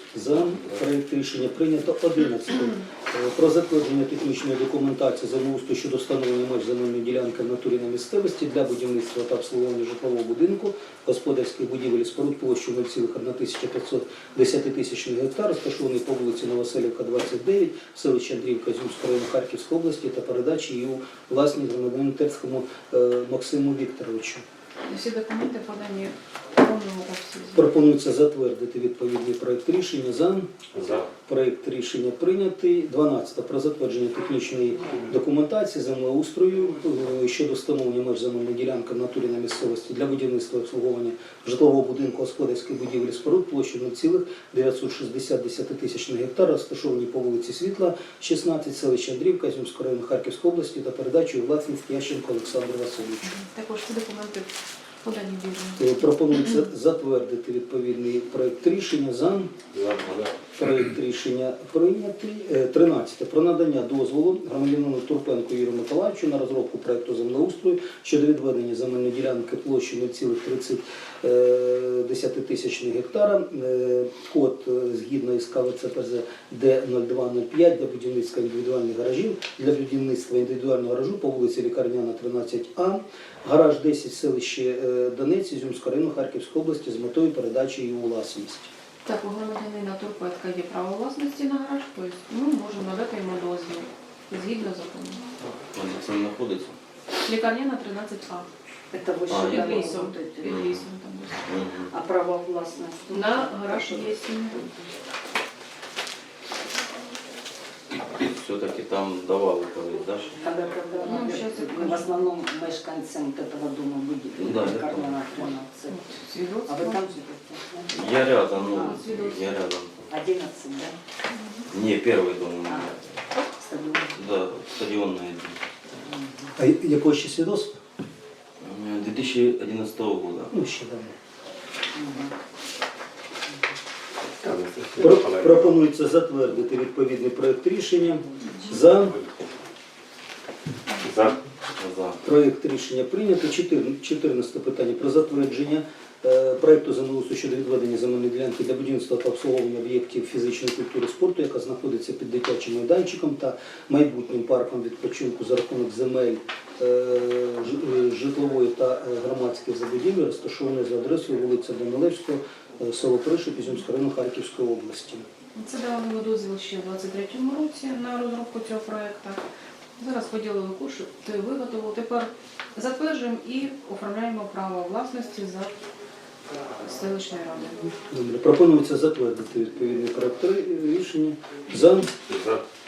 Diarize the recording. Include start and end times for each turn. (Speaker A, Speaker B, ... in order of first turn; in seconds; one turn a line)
Speaker A: 0.1-24.4
Speaker B: 24.9-27.7
Speaker A: 27.6-30.5
Speaker C: 30.7-31.1
Speaker A: 31.1-53.3
Speaker B: 53.2-54.5
Speaker B: 55.0-56.0
Speaker A: 55.8-59.5
Speaker C: 59.7-60.1
Speaker A: 60.5-88.7
Speaker B: 89.0-95.2
Speaker D: 95.5-96.8
Speaker B: 97.2-98.5
Speaker E: 98.9-100.6
Speaker D: 99.3-100.8
Speaker B: 99.3-101.5
Speaker D: 101.5-101.9
Speaker E: 101.9-104.1
Speaker B: 103.1-104.7
Speaker D: 108.0-110.4
Speaker E: 110.4-116.0
Speaker B: 111.0-112.3
Speaker D: 114.4-115.2
Speaker B: 115.9-117.1
Speaker E: 116.7-118.0
Speaker D: 117.9-120.0
Speaker B: 118.7-119.4
Speaker E: 118.7-119.0
Speaker E: 120.1-121.0
Speaker B: 121.3-121.6
Speaker D: 121.7-123.2
Speaker E: 122.7-124.2
Speaker D: 124.1-125.6
Speaker E: 126.0-126.5
Speaker A: 126.6-127.8
Speaker D: 128.6-130.5
Speaker A: 130.5-131.1
Speaker E: 131.9-132.3
Speaker C: 134.4-135.6
Speaker A: 135.0-139.2
Speaker C: 141.0-141.4
Speaker D: 141.8-142.2
Speaker A: 142.2-165.2
Speaker B: 165.6-169.4
Speaker B: 170.0-175.7
Speaker B: 176.8-177.9
Speaker A: 178.1-182.1
Speaker C: 182.3-182.6